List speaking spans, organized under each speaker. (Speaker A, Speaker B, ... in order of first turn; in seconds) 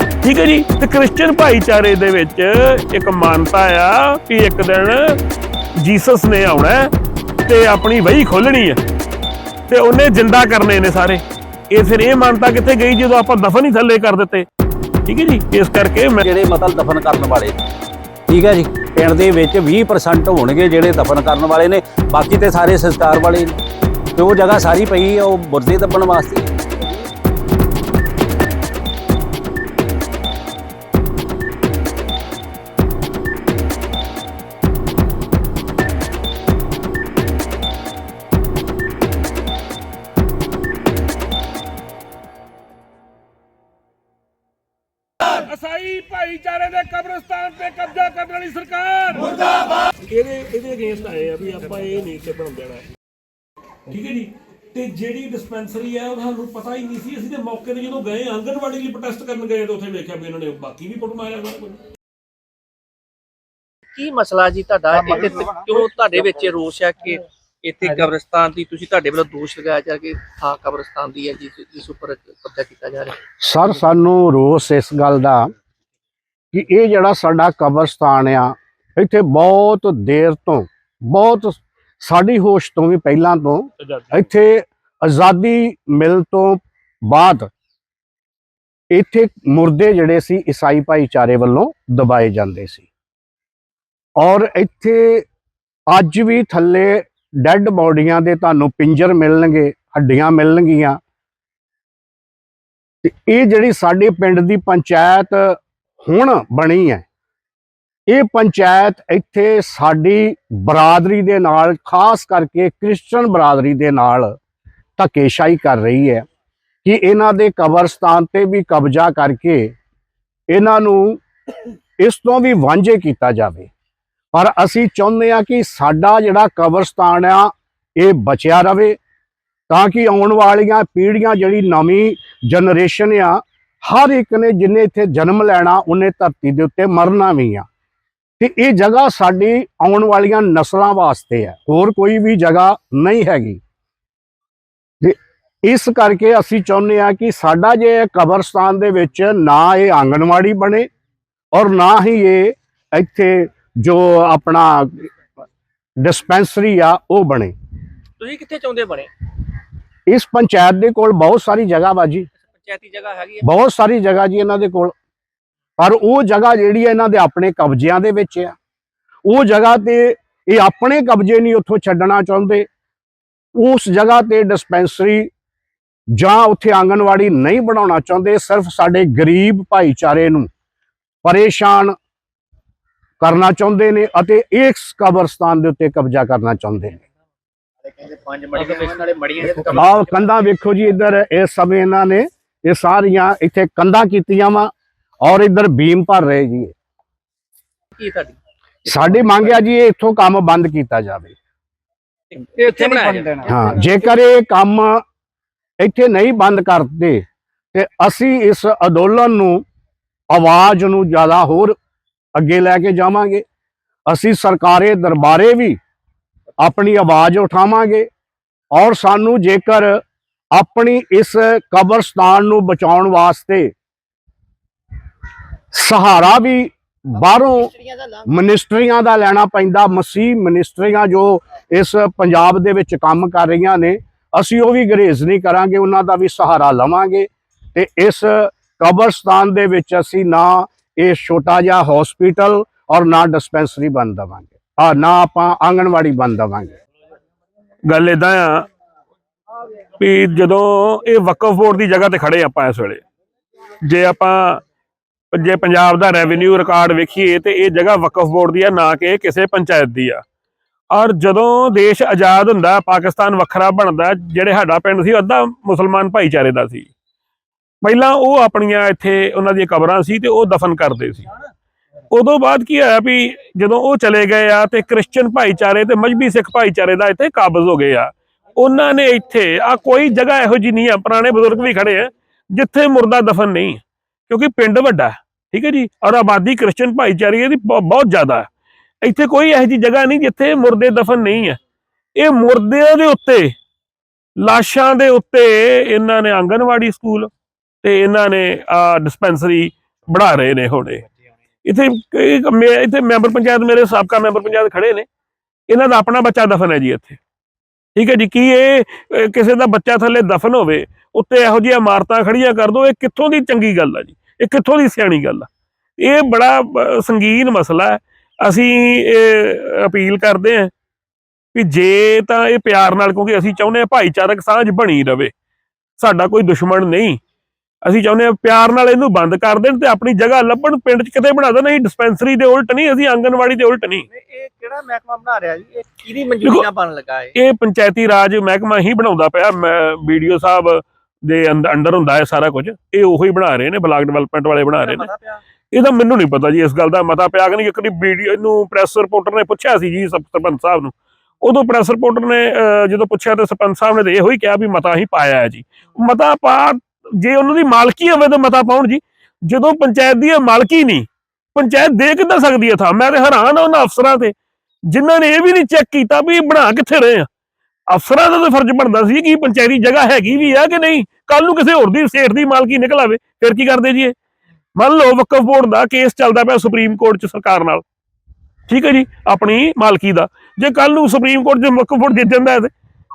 Speaker A: 0.2-5.2, 5.8-6.9, 7.5-8.8, 9.7-14.4, 15.1-16.2, 45.2-52.9, 53.9-61.8, 83.8-84.1, 247.9-248.7, 250.0-253.0, 253.8-254.6, 255.3-260.2, 260.9-266.9, 267.8-271.3, 272.1-288.5, 289.0-291.6, 292.2-293.5, 294.4-297.3, 297.8-301.0, 301.6-305.1, 305.7-307.2, 308.0-320.7, 321.5-325.3, 326.0-327.2, 327.9-334.1, 337.4-345.1, 345.7-364.3, 364.9-367.3, 367.9-374.1, 374.8-377.8, 378.7-382.7
Speaker B: 16.2-17.6, 18.3-23.6, 24.1-26.5
Speaker C: 64.0-73.2, 158.2-159.1, 162.5-163.4, 188.3-189.5, 198.0-198.3, 199.1-199.4, 202.3-203.3, 334.1-337.3, 344.9-345.4
Speaker D: 73.4-75.5, 76.5-87.5, 88.9-92.9, 94.2-95.2, 95.9-101.0, 103.0-107.0, 108.1-114.3, 115.0-116.2, 116.8-119.7, 120.5-121.2, 122.0-123.7, 124.3-129.0, 129.7-137.7, 138.4-143.6, 145.0-150.9, 151.5-155.1, 156.0-157.5, 160.1-162.3, 163.4-164.9, 165.8-168.6, 169.3-172.7, 173.6-175.3, 176.2-180.5, 181.2-181.9, 183.2-187.0, 189.6-194.7, 195.2-196.7, 198.9-201.3, 203.4-205.0, 205.8-209.6, 210.3-211.8, 212.3-213.4, 214.1-215.8, 216.6-218.1, 218.7-220.0, 220.5-223.7, 225.7-227.7, 228.2-246.7